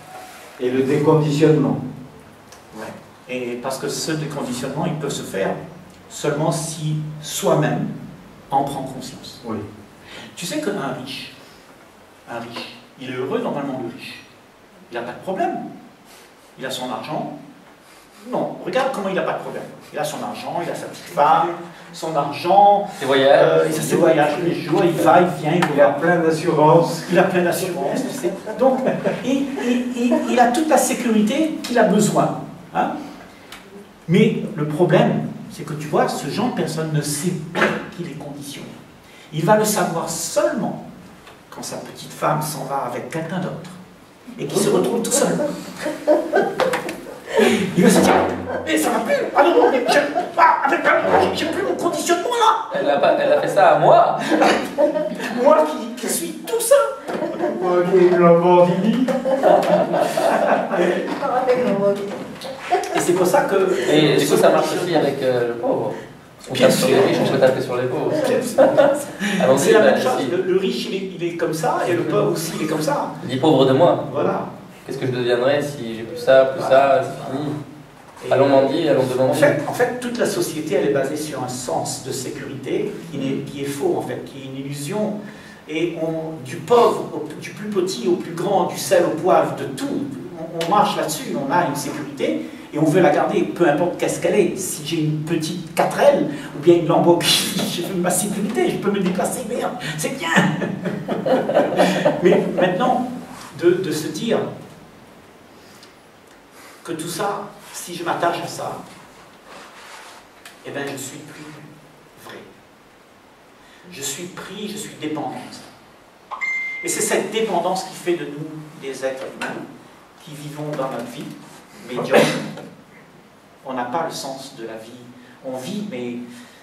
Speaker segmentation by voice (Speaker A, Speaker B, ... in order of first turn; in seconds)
Speaker A: 0.6-1.8, 23.6-25.1, 25.7-27.3, 57.4-59.3
Speaker B: 2.7-5.6, 6.1-7.9, 8.5-9.4, 10.3-11.3, 12.3-14.2, 14.9-15.6, 16.6-17.4, 18.2-26.1, 27.0-32.9, 34.1-38.7, 39.3-40.8, 41.5-43.8, 44.4-45.5, 47.3-52.7, 54.3-57.4, 59.5-60.8, 62.9-65.1, 66.4-67.5, 68.1-73.2, 74.1-74.5, 76.5-77.5, 78.2-104.5, 106.8-108.8, 110.6-112.5, 113.9-115.7, 116.8-119.6, 120.2-122.5, 123.6-126.2
Speaker C: 23.0-23.6, 52.7-54.3, 59.8-60.2, 63.8-70.3, 71.8-72.1, 73.2-74.0, 74.8-77.6, 78.3-79.6, 83.2-83.4
Speaker D: 60.8-62.8